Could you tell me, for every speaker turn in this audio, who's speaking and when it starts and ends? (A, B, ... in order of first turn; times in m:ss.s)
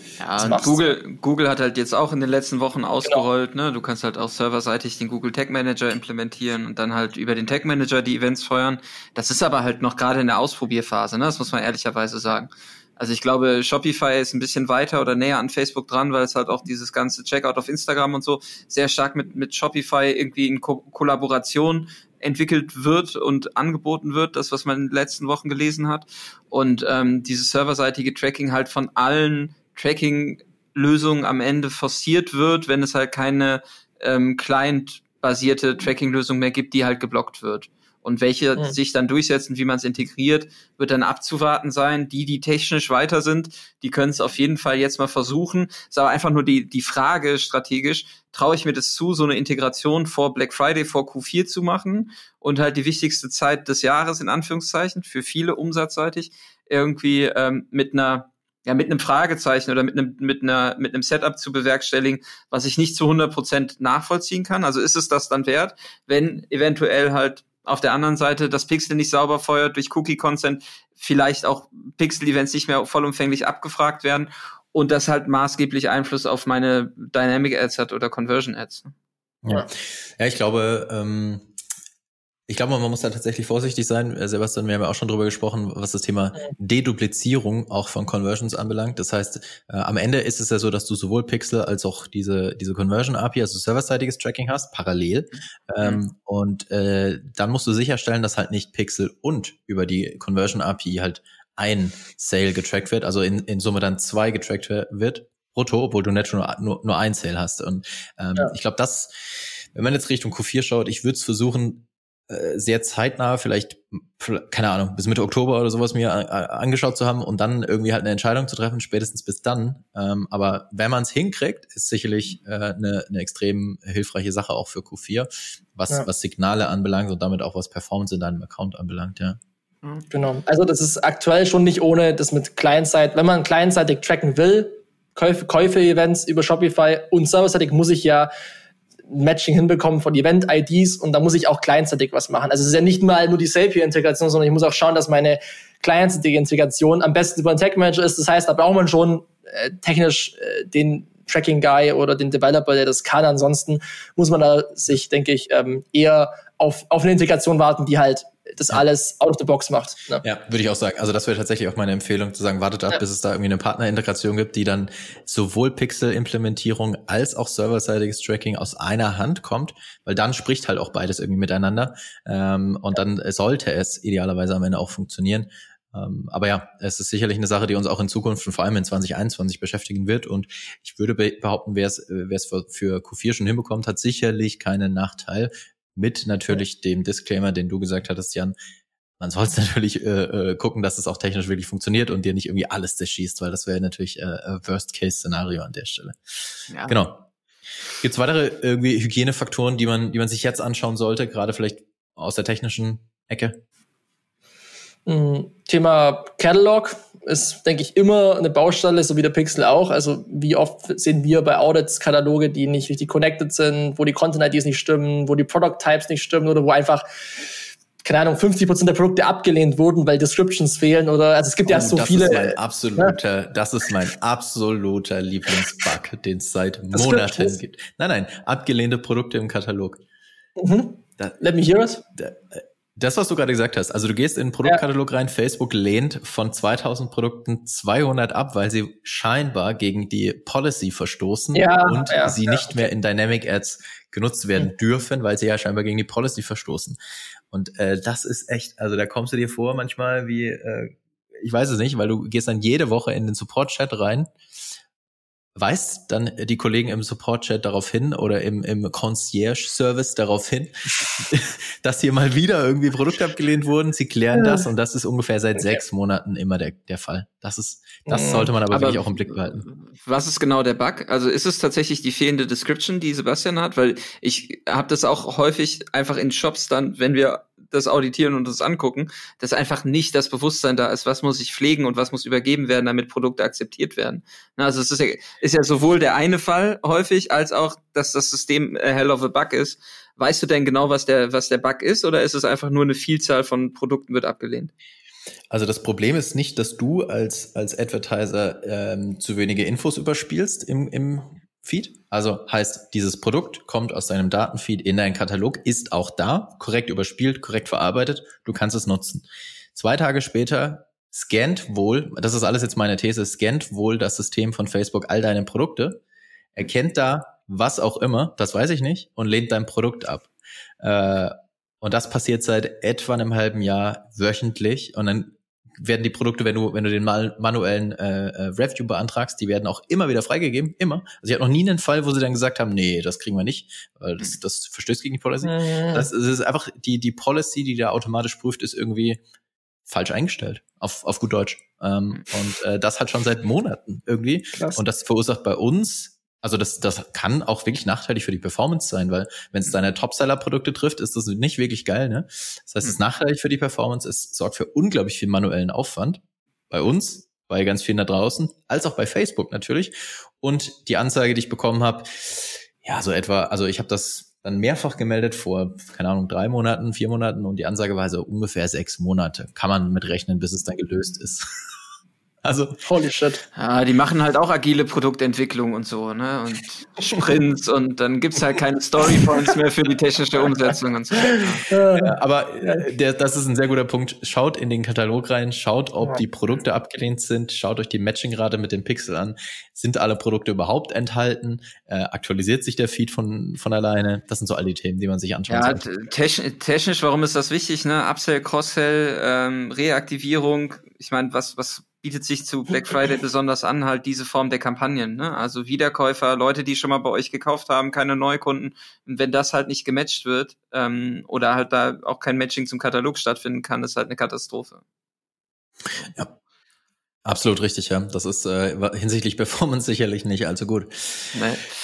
0:00.2-1:18.9 A
0:00.4-0:00.9 B
1:19.4-1:21.5 C
1:22.5-2:09.4 C
2:10.1-2:18.3 B
2:19.1-2:40.2 B
2:40.2-3:08.6 C
3:09.2-3:16.2 C
3:16.8-3:17.3 C
3:17.9-3:23.6 C
3:25.0-3:37.5 B
3:38.0-3:43.1 B
3:41.6-3:50.0 C
3:46.9-3:47.6 B
3:50.6-3:52.0 B
3:52.1-4:07.0 C
4:01.5-4:02.8 B
4:07.5-4:14.3 C
4:15.6-4:29.6 C
4:24.3-4:24.6 B
4:28.1-4:28.5 B
4:28.7-4:54.7 A
4:55.5-5:16.0 C
5:16.6-5:39.2 C
5:35.4-5:36.1 B
5:39.9-6:11.6 C
6:12.4-6:12.8 C
6:12.8-6:13.4 B
6:13.6-6:21.7 A
6:21.3-6:22.8 B
6:22.0-6:35.8 C
6:35.5-6:54.8 A
6:57.2-7:01.4 C
7:01.3-7:01.7 A